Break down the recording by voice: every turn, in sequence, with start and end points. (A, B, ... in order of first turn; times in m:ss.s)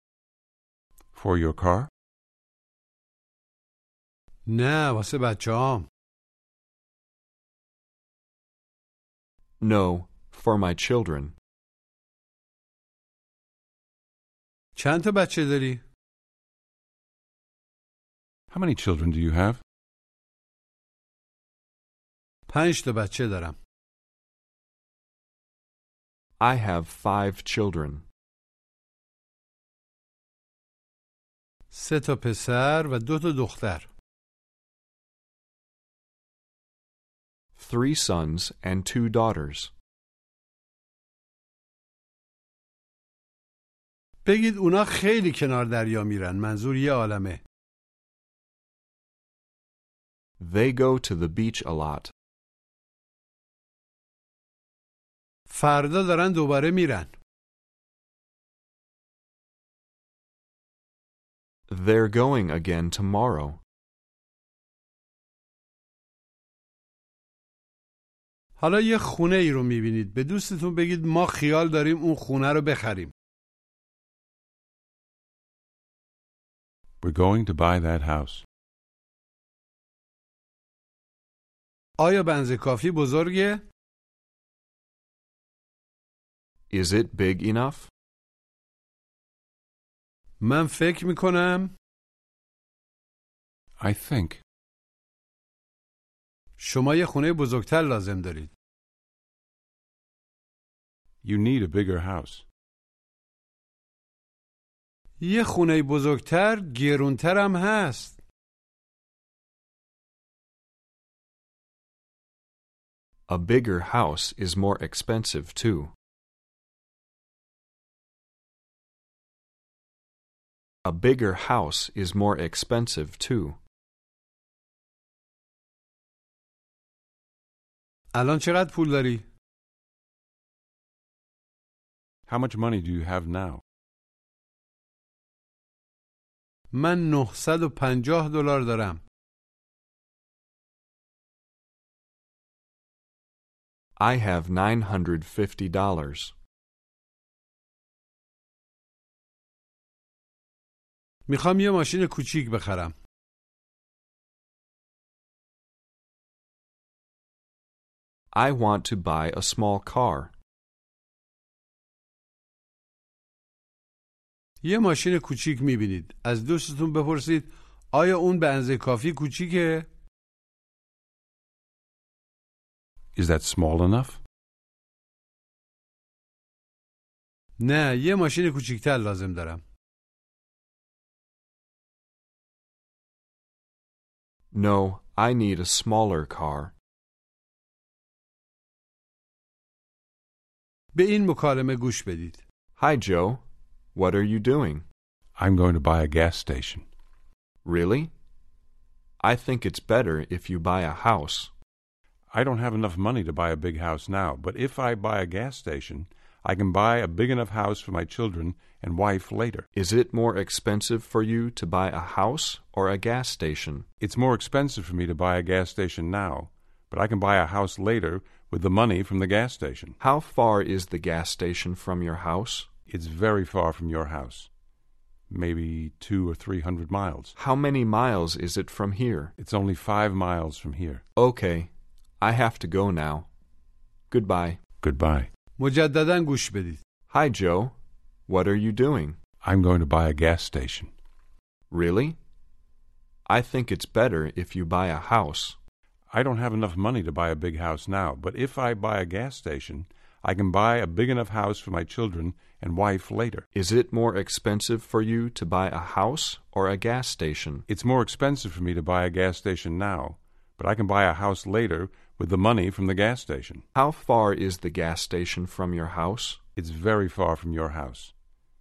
0:01.1-0:01.9 A
0:04.4-0:05.9 B
0:09.6-0:11.3 C
0:14.8-0:15.8 B
0:18.5-0:19.6 A
0:22.5-0:23.6 B
0:26.4-0:28.0 C
0:31.7-0:33.9 B
0:37.6-0:39.7 C
0:44.2-0:47.4 B
0:50.4-0:52.1 C
0:55.5-0:57.1 B
1:01.7-1:03.6 C
1:08.6-1:13.1 B
1:17.0-1:18.4 A
1:22.0-1:23.6 B
1:26.7-1:27.9 C
1:30.4-1:31.7 B
1:33.8-1:34.4 A
1:36.6-1:38.5 B
1:41.2-1:42.4 A
1:45.2-1:48.2 B
1:53.3-1:55.9 C
2:00.8-2:03.6 C
2:08.1-2:09.2 B
2:12.3-2:13.6 A
2:16.7-2:19.0 B
2:24.0-2:26.3 C
2:31.3-2:32.9 B
2:38.3-2:40.3 C
2:44.6-2:49.9 B
2:53.2-2:54.2 A
2:57.6-2:59.6 B
3:04.5-3:06.7 C
3:10.9-3:12.4 B
3:12.8-3:13.4 C
3:13.9-3:14.8 C
3:15.4-3:16.8 A
3:17.6-3:18.1 C
3:19.2-3:21.5 C
3:22.3-3:29.6 A
3:29.7-3:33.8 C
3:34.0-3:40.0 A
3:40.0-3:42.7 C
3:42.9-3:44.5 A
3:45.3-3:47.3 A
3:47.4-3:49.3 C
3:49.4-3:51.0 A
3:51.2-3:53.3 C
3:54.1-3:54.6 C
3:54.8-3:55.3 A
3:55.6-3:56.8 B
3:57.1-3:57.7 C
3:58.3-3:59.2 C
3:59.4-4:00.9 A
4:01.7-4:02.2 C
4:03.3-4:05.6 C
4:06.1-4:13.4 A
4:13.5-4:17.6 C
4:17.7-4:23.6 A
4:23.7-4:26.4 C
4:26.6-4:28.1 A